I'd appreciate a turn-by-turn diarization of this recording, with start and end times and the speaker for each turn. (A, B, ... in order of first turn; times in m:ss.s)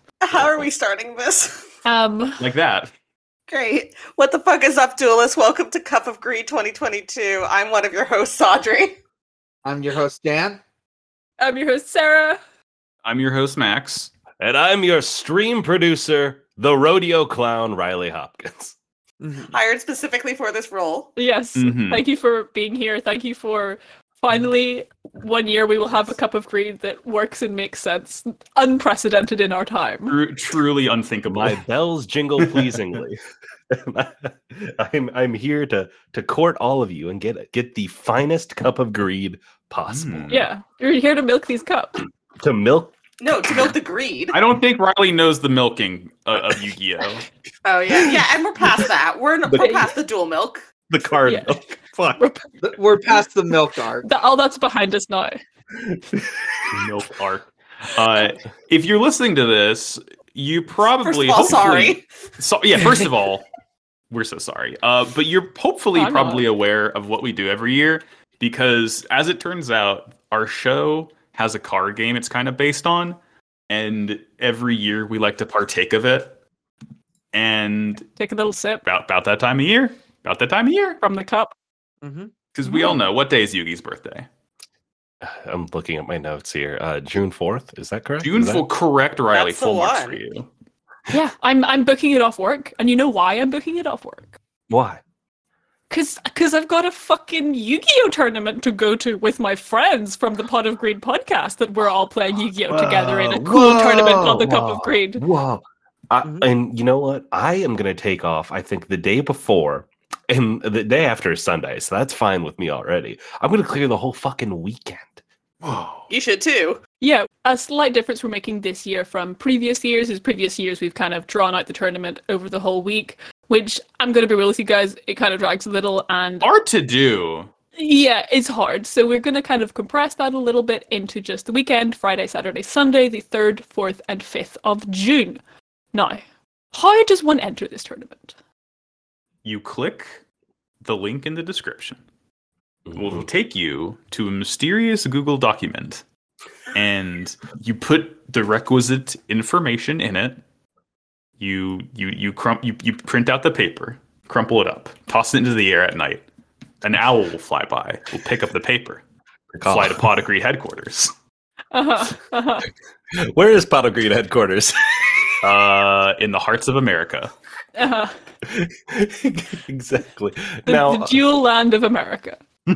0:00.2-0:01.6 A
0:01.8-0:02.4 B
0:02.4-0:02.9 C
0:03.5-0:09.0 A
0:09.6-0:10.6 D
0:11.4-0:12.4 B
0:13.0-0:14.1 C
0:14.4-0:18.8 E
0:19.2-0:19.5 D
0:19.4-0:21.1 A
0:21.2-0:30.2 B
0:21.6-0:22.0 C
0:30.1-0:31.6 C
0:31.2-0:33.2 E
0:32.4-0:32.8 C
0:33.7-0:40.5 E
0:39.8-0:40.4 C
0:40.3-0:41.9 B
0:42.4-0:42.9 E
0:43.2-0:44.4 A
0:44.3-0:47.3 C
0:47.6-0:50.6 A
0:49.5-0:49.8 E
0:49.6-0:49.9 B
0:50.9-0:52.2 E
0:51.2-0:51.5 B
0:52.2-0:52.4 B
0:52.6-0:54.1 D
0:54.0-0:55.4 B
0:56.7-1:03.5 C
1:00.8-1:02.0 A
1:04.1-1:13.2 C
1:05.9-1:06.5 B
1:13.7-1:16.4 C
1:17.3-1:18.1 C
1:18.1-1:18.8 B
1:18.8-1:21.0 C
1:21.0-1:21.5 B
1:22.0-1:22.3 D
1:22.5-1:24.3 C
1:22.6-1:23.0 B
1:25.2-1:28.7 E
1:28.2-1:30.5 C
1:29.3-1:30.2 A
1:31.1-1:34.3 B
1:34.7-1:35.0 E
1:35.9-1:45.2 B
1:42.7-1:55.2 E
1:55.6-1:56.1 C
1:56.1-1:56.8 A
1:57.0-2:06.5 B
2:06.4-2:07.5 C
2:07.8-2:15.4 B
2:15.9-2:16.2 B
2:16.7-2:18.3 B
2:19.4-2:20.2 C
2:20.8-2:22.0 C
2:22.9-2:23.3 E
2:22.9-2:26.0 C
2:26.7-2:30.4 C
2:31.4-2:36.2 C
2:36.8-2:39.0 C
2:39.5-2:40.1 E
2:39.6-2:41.1 C
2:41.7-2:42.7 B
2:43.1-2:45.2 E
2:45.4-2:47.3 C
2:47.8-2:48.1 B
2:48.5-2:51.2 E
2:50.7-2:52.4 B